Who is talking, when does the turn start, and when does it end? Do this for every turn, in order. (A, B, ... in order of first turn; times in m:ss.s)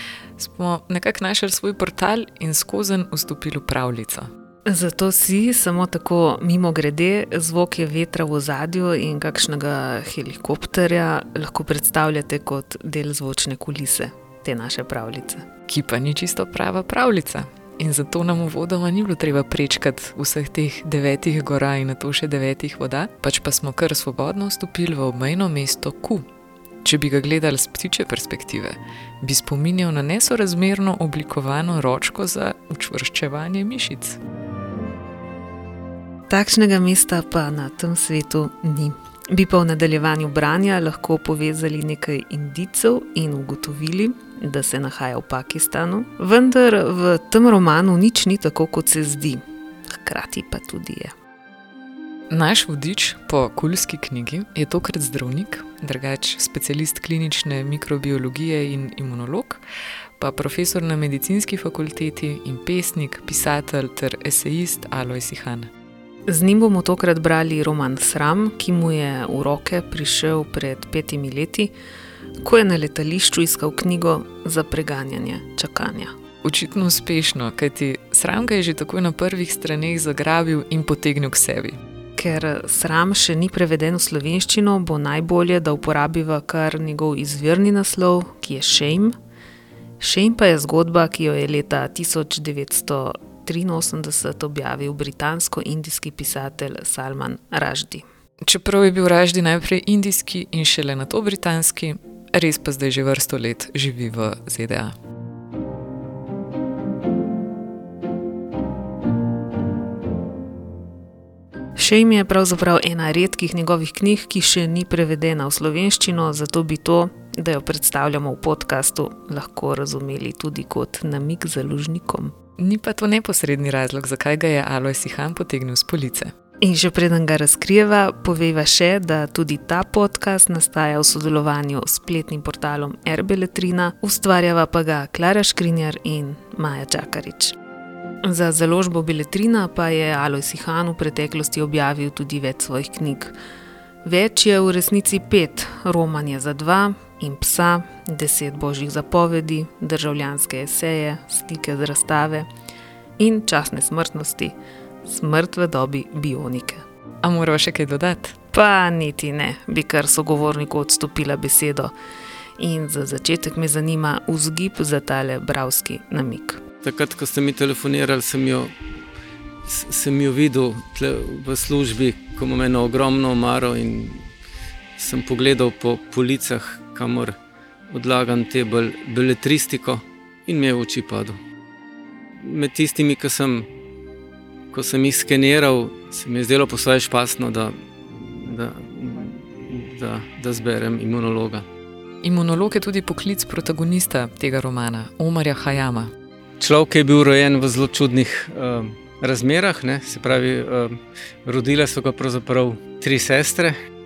0:00.4-0:04.3 A
0:04.7-0:15.5 B
0:15.7-0:26.3 A
0:26.8-0:34.2 A
0:36.3-0:51.2 B
0:52.3-0:59.6 A
1:00.2-1:05.7 A
1:06.3-1:11.7 B
1:12.4-1:16.1 B
1:16.4-1:21.8 A
1:22.2-1:29.1 B
1:30.0-1:38.0 B
1:38.5-1:45.0 A
1:51.8-2:02.3 B
2:02.6-2:06.3 A
2:06.6-2:17.6 B
2:18.2-2:23.4 B
2:24.0-2:32.5 B
2:33.2-2:36.8 B
2:37.2-2:38.4 A
2:38.5-2:41.9 B
2:42.6-2:46.6 B
2:46.8-2:48.7 C
2:49.7-2:54.2 C
2:55.0-2:57.4 C
2:57.9-3:01.4 C
3:02.4-3:03.7 C
3:04.7-3:11.6 C
3:12.2-3:16.1 A
3:16.6-3:23.8 C